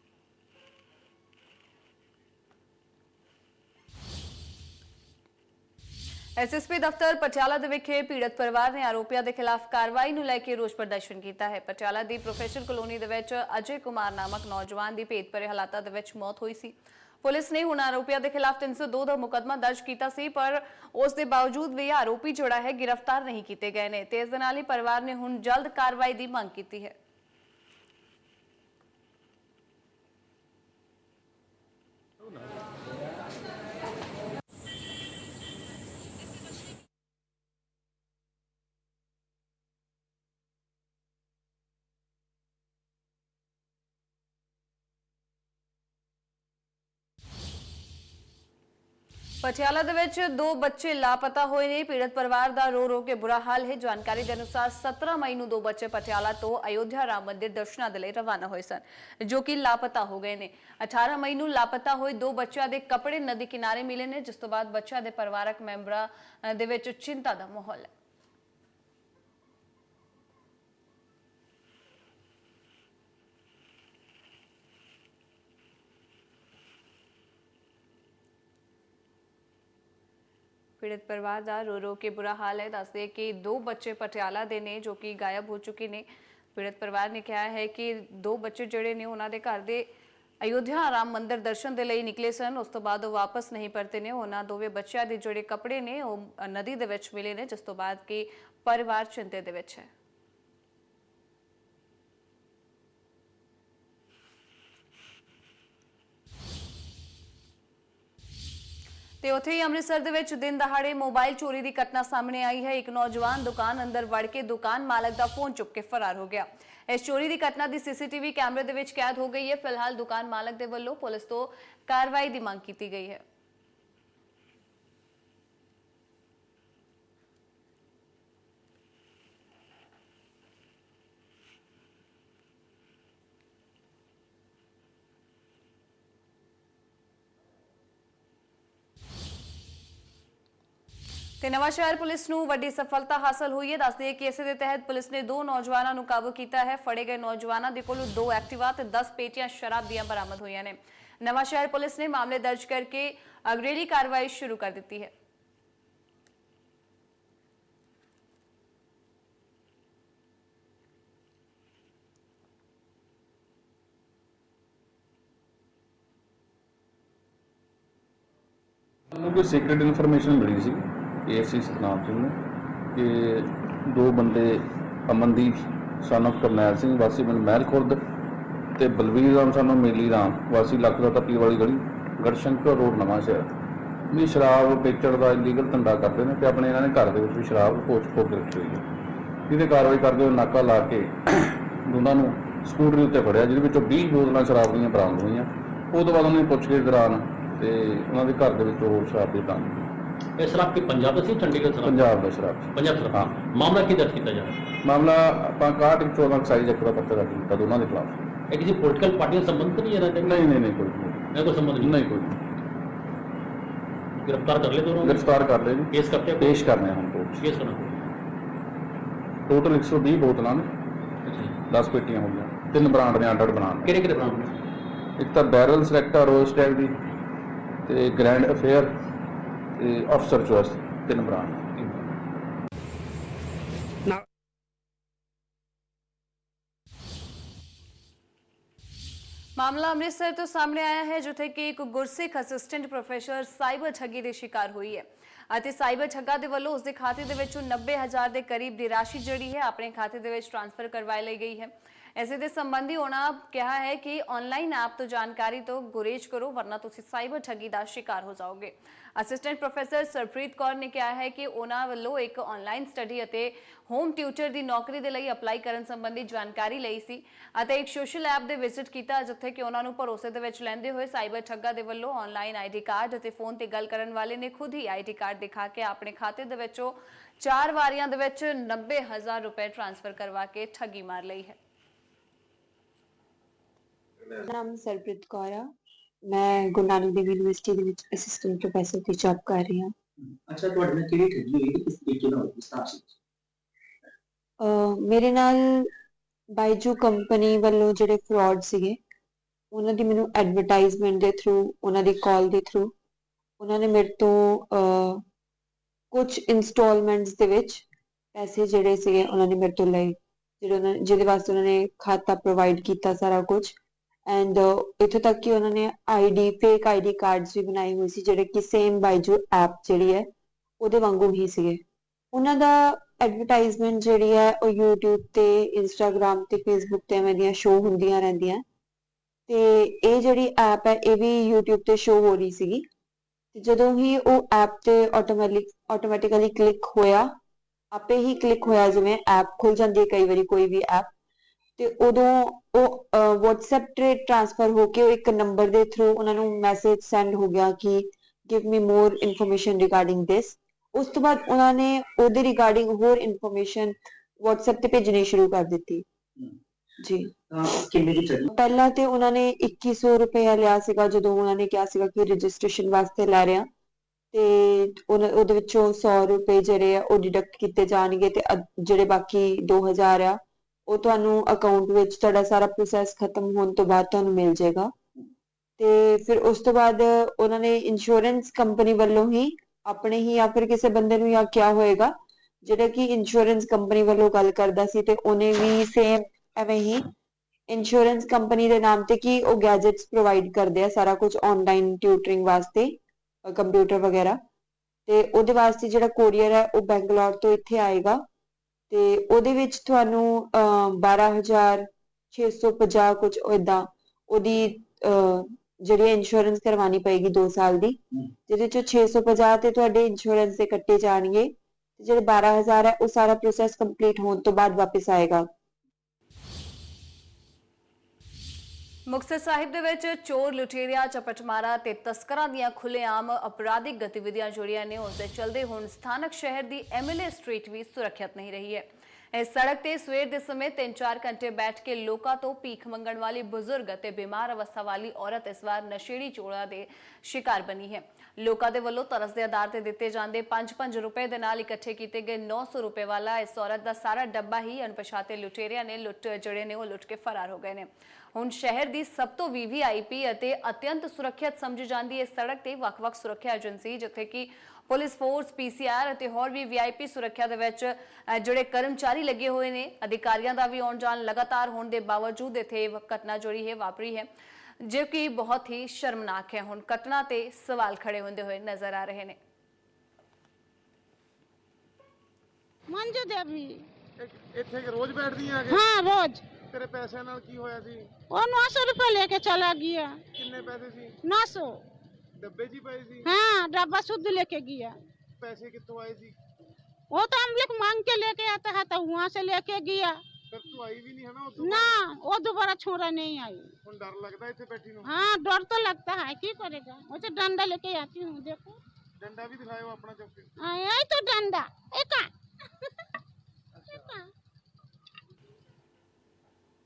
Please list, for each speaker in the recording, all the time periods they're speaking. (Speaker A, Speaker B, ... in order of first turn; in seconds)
Speaker A: 6.4-26.9, 49.4-67.9, 80.8-89.9, 90.4-99.9, 109.2-123.2, 141.4-155.1, 239.6-281.6, 419.1-464.3, 464.8-469.4
Speaker B: 169.1-172.3, 173.0-178.0, 178.8-183.5, 184.1-188.8, 189.5-199.8, 201.8-203.4, 204.8-208.2, 210.2-212.4, 215.0-217.4, 219.5-220.7, 221.7-223.9, 225.2-226.9, 227.9-228.9, 229.8-232.0
Speaker C: 200.4-202.1, 202.7-204.7, 208.5-210.5, 211.3-212.0, 214.2-215.3, 215.9-216.7, 217.4-218.0, 221.2-221.6, 223.9-224.6
Speaker D: 284.3-285.7, 286.3-289.9, 294.6-295.9, 296.5-299.0, 299.7-302.9, 303.6-305.2, 306.1-313.8, 314.3-321.8, 322.3-328.6, 329.5-332.9, 333.5-337.4, 337.9-341.1, 341.8-356.1, 357.0-357.3, 358.5-363.7, 364.3-374.9, 375.8-387.0, 387.7-394.4, 395.1-398.3, 398.9-415.5
Speaker E: 290.2-293.2, 357.5-358.5
Speaker F: 472.9-473.9, 475.7-476.4, 478.3-480.2, 481.2-481.8, 483.2-485.0, 487.1-490.2, 491.6-493.7, 495.1-498.8, 500.6-502.3, 503.9-504.3
Speaker G: 474.2-475.9, 476.6-478.1, 480.4-481.2, 482.4-483.3, 485.4-486.4, 490.5-491.9, 493.8-495.1, 499.2-500.5, 503.8-504.1